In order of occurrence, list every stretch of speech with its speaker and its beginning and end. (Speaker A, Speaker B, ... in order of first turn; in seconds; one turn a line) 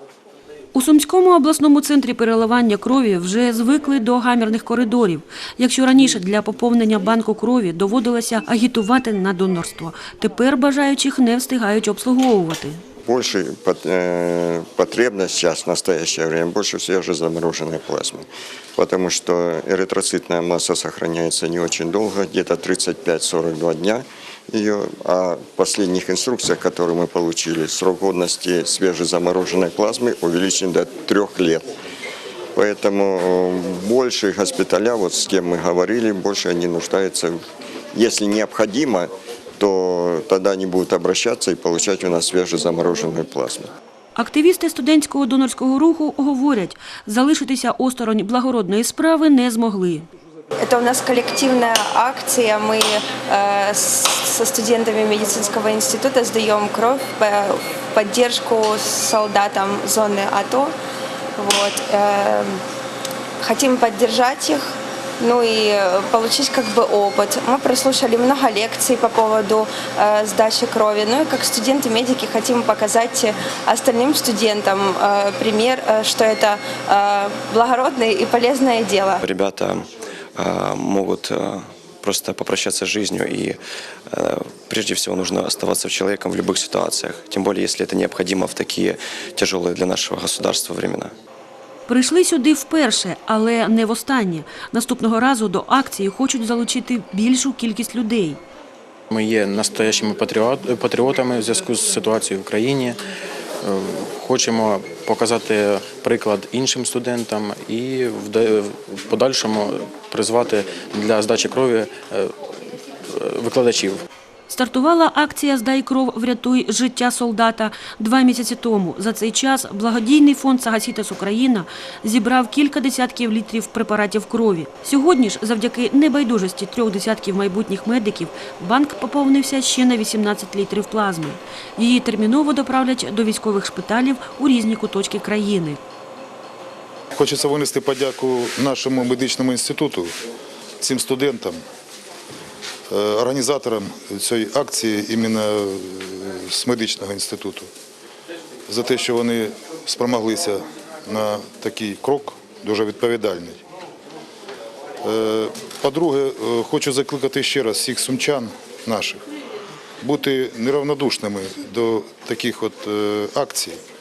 Speaker A: 0.7-12.8
Speaker B: 13.1-31.7
Speaker B: 32.6-37.4
Speaker B: 37.9-43.7
Speaker A: 44.2-50.1
Speaker C: 50.6-60.7
Speaker C: 61.4-62.6
Speaker C: 63.4-79.2
Speaker D: 79.2-83.6
Speaker D: 84.1-91.1
Speaker A: 91.9-98.4
Speaker E: 99.1-103.0
Speaker E: 103.6-112.3
Speaker E: 113.1-114.0
Speaker A: 114.5-135.8
Speaker F: 137.2-140.1
Speaker F: 140.8-141.6
Speaker F: 142.9-147.7
Speaker F: 148.7-153.6
Speaker F: 155.0-159.2
Speaker F: 160.0-163.8